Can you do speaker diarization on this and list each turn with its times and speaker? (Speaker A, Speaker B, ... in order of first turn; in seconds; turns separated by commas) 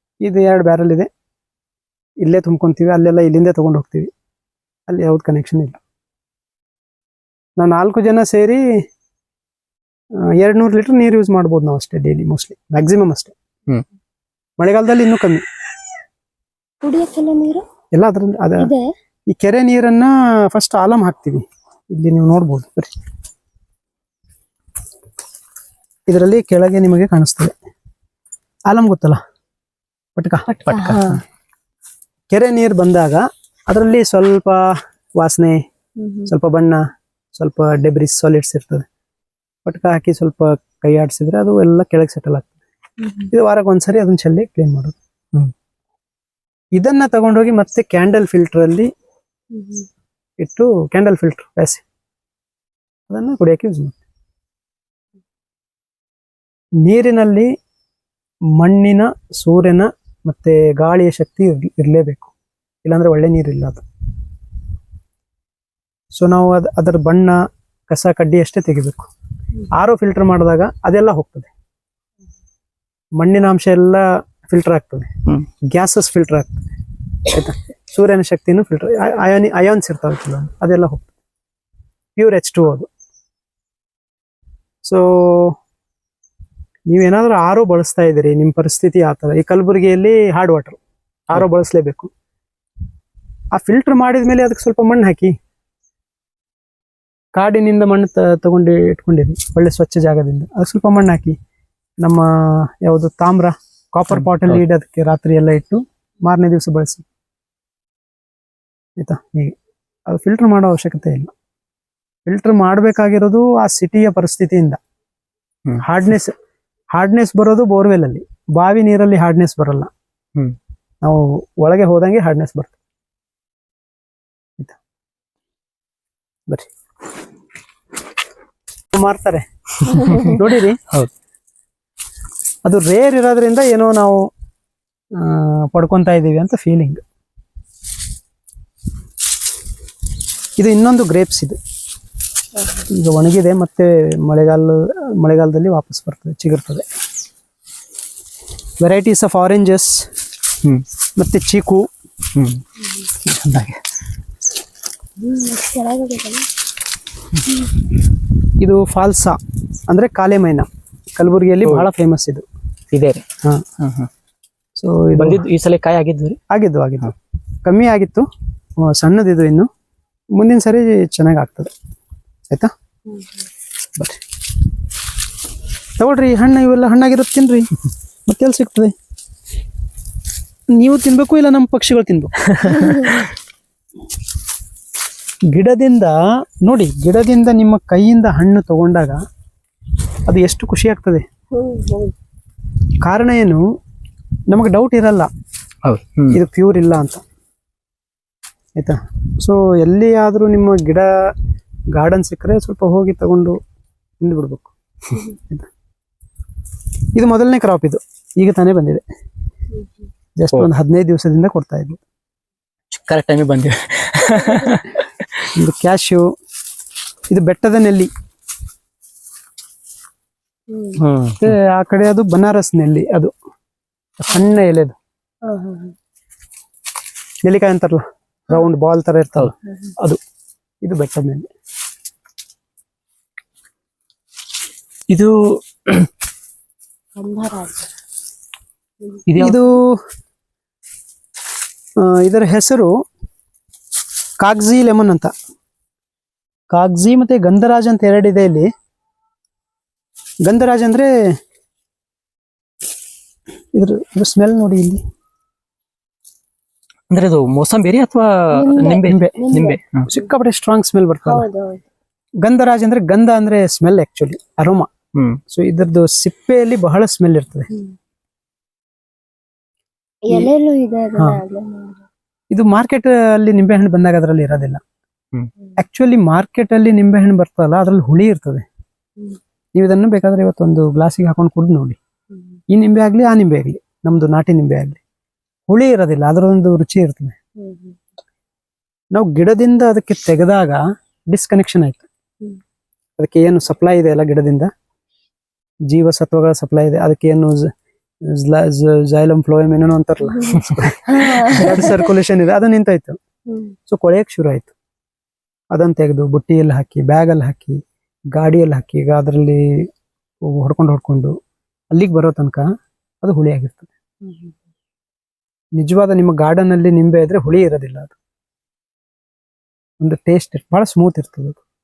Speaker A: 0.2-1.1, Speaker A: 2.2-4.1, Speaker A: 4.9-5.8, Speaker A: 7.6-8.6, Speaker A: 10.2-13.3, Speaker A: 14.6-15.4, Speaker B: 16.8-17.6, Speaker A: 17.9-18.7, Speaker B: 18.6-18.9, Speaker A: 19.3-22.9, Speaker A: 26.1-27.5, Speaker A: 28.7-29.2, Speaker A: 30.1-31.1, Speaker B: 30.5-31.2, Speaker C: 30.7-31.0, Speaker A: 32.3-35.6, Speaker B: 36.0-36.3, Speaker A: 36.3-36.8, Speaker A: 37.4-38.9, Speaker A: 39.6-42.5, Speaker B: 43.0-43.3, Speaker A: 43.3-44.9, Speaker A: 46.7-48.9, Speaker B: 49.5-49.9, Speaker A: 50.4-51.8, Speaker A: 53.1-54.0, Speaker A: 56.8-57.5, Speaker A: 58.6-62.3, Speaker A: 62.8-63.8, Speaker A: 66.1-69.1, Speaker A: 69.7-71.5, Speaker A: 73.2-75.1, Speaker A: 75.6-76.7, Speaker A: 77.2-81.1, Speaker A: 82.2-82.9, Speaker A: 84.8-85.6, Speaker A: 86.9-90.8, Speaker A: 91.3-92.1, Speaker A: 93.5-95.3, Speaker A: 97.3-101.3, Speaker A: 102.0-107.0, Speaker C: 104.1-104.6, Speaker A: 109.0-109.5, Speaker A: 110.1-111.3, Speaker A: 112.2-114.8, Speaker A: 115.8-116.3, Speaker A: 116.9-119.9, Speaker A: 121.0-122.7, Speaker A: 128.9-130.8, Speaker C: 129.9-131.1, Speaker A: 132.6-134.3, Speaker A: 135.1-137.0, Speaker A: 140.6-141.6, Speaker B: 142.6-142.8, Speaker A: 142.9-146.8, Speaker A: 148.8-150.1, Speaker A: 151.2-151.9, Speaker C: 152.3-152.6, Speaker C: 153.2-153.8, Speaker B: 155.2-156.5, Speaker A: 158.6-162.4, Speaker C: 161.6-161.9, Speaker C: 162.9-163.2, Speaker C: 163.8-164.1, Speaker A: 164.8-165.4, Speaker C: 165.2-166.4, Speaker A: 166.5-168.3, Speaker A: 168.8-169.7, Speaker A: 170.3-171.7, Speaker B: 173.1-173.4, Speaker A: 173.9-174.2, Speaker A: 176.0-177.7, Speaker A: 178.3-178.9, Speaker A: 180.7-183.1, Speaker B: 182.7-183.2, Speaker A: 185.5-189.2, Speaker A: 190.2-191.2, Speaker B: 191.5-192.1, Speaker A: 193.0-193.6, Speaker A: 194.5-195.3, Speaker C: 195.8-196.4, Speaker A: 196.3-197.2, Speaker A: 198.8-201.3, Speaker A: 201.9-203.6, Speaker A: 204.2-205.7, Speaker A: 207.1-209.0, Speaker A: 210.3-212.0, Speaker C: 212.9-215.5, Speaker B: 214.4-214.8, Speaker A: 215.5-216.3, Speaker A: 217.3-218.1, Speaker B: 220.7-221.0, Speaker C: 220.9-221.5, Speaker A: 221.4-223.3, Speaker A: 224.2-224.9, Speaker B: 225.4-225.9, Speaker A: 227.4-230.2, Speaker A: 230.8-231.5, Speaker C: 235.1-236.1, Speaker B: 237.2-237.9, Speaker B: 239.0-239.5, Speaker C: 239.3-239.6, Speaker A: 239.4-240.0, Speaker A: 242.0-242.9, Speaker A: 244.4-245.3, Speaker A: 246.7-248.7, Speaker A: 250.4-251.3, Speaker A: 253.7-255.0, Speaker C: 257.1-260.1, Speaker B: 258.5-260.3, Speaker A: 259.1-259.4, Speaker A: 260.1-261.5, Speaker B: 261.2-261.8, Speaker A: 262.4-264.9, Speaker C: 265.1-265.4, Speaker A: 265.5-267.7, Speaker B: 270.3-272.0, Speaker A: 272.5-274.8, Speaker A: 275.8-278.6, Speaker A: 279.7-282.0, Speaker B: 282.3-282.6, Speaker A: 282.7-285.0, Speaker A: 285.7-287.4, Speaker B: 287.6-288.0, Speaker A: 289.1-292.0, Speaker A: 293.2-294.7, Speaker A: 295.9-297.7, Speaker A: 298.2-303.2, Speaker B: 300.4-302.1, Speaker B: 303.5-303.8, Speaker A: 303.9-304.7, Speaker A: 305.7-307.8, Speaker A: 308.3-309.9, Speaker A: 310.4-311.4, Speaker A: 311.9-312.7, Speaker A: 313.2-313.9, Speaker B: 314.2-314.5, Speaker A: 315.8-318.1, Speaker A: 320.0-321.6